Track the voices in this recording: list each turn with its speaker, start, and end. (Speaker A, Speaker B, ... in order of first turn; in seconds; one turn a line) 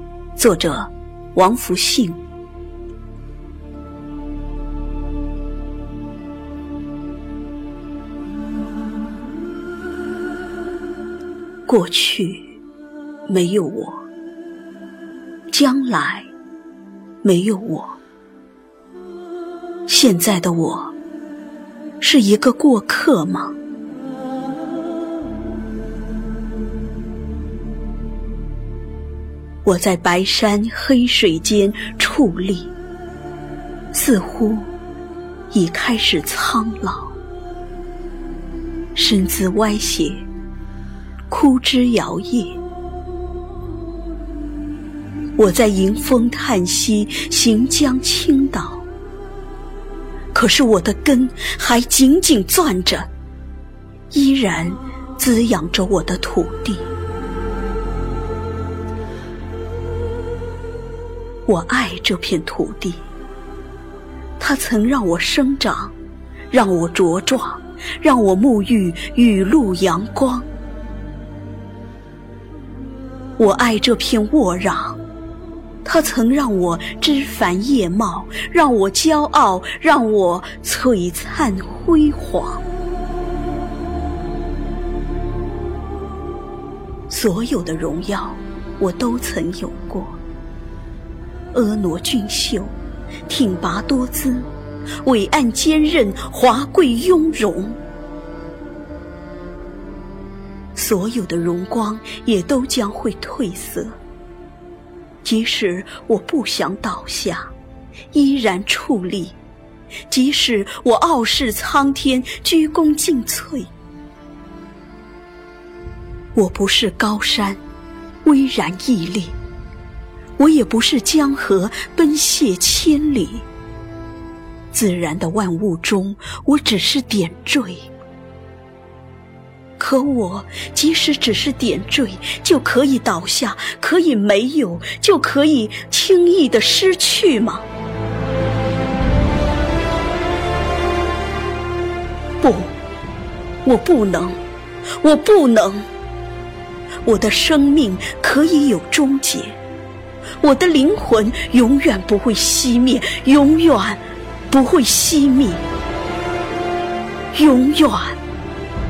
Speaker A: 0.4-2.2
Speaker A: 11.7-12.5
Speaker A: 13.3-14.0
Speaker A: 15.5-16.3
Speaker A: 17.2-18.0
Speaker A: 19.9-20.9
Speaker A: 22.0-23.6
Speaker A: 29.6-32.7
Speaker A: 33.9-34.7
Speaker A: 35.5-37.1
Speaker A: 39.0-40.2
Speaker A: 41.3-42.6
Speaker A: 45.4-48.8
Speaker A: 50.3-53.1
Speaker A: 54.1-56.9
Speaker A: 61.5-63.0
Speaker A: 64.4-65.9
Speaker A: 66.5-70.5
Speaker A: 73.4-75.0
Speaker A: 75.8-82.6
Speaker A: 87.1-90.2
Speaker A: 91.5-92.7
Speaker A: 93.3-94.5
Speaker A: 95.0-97.8
Speaker A: 100.8-104.0
Speaker A: 105.2-107.5
Speaker A: 108.1-109.4
Speaker A: 110.1-113.7
Speaker A: 116.3-117.6
Speaker A: 118.2-119.3
Speaker A: 120.4-123.5
Speaker A: 124.7-127.9
Speaker A: 129.8-137.7
Speaker A: 142.4-142.8
Speaker A: 143.6-144.4
Speaker A: 145.0-145.9
Speaker A: 147.0-149.6
Speaker A: 150.4-155.6
Speaker A: 157.3-158.2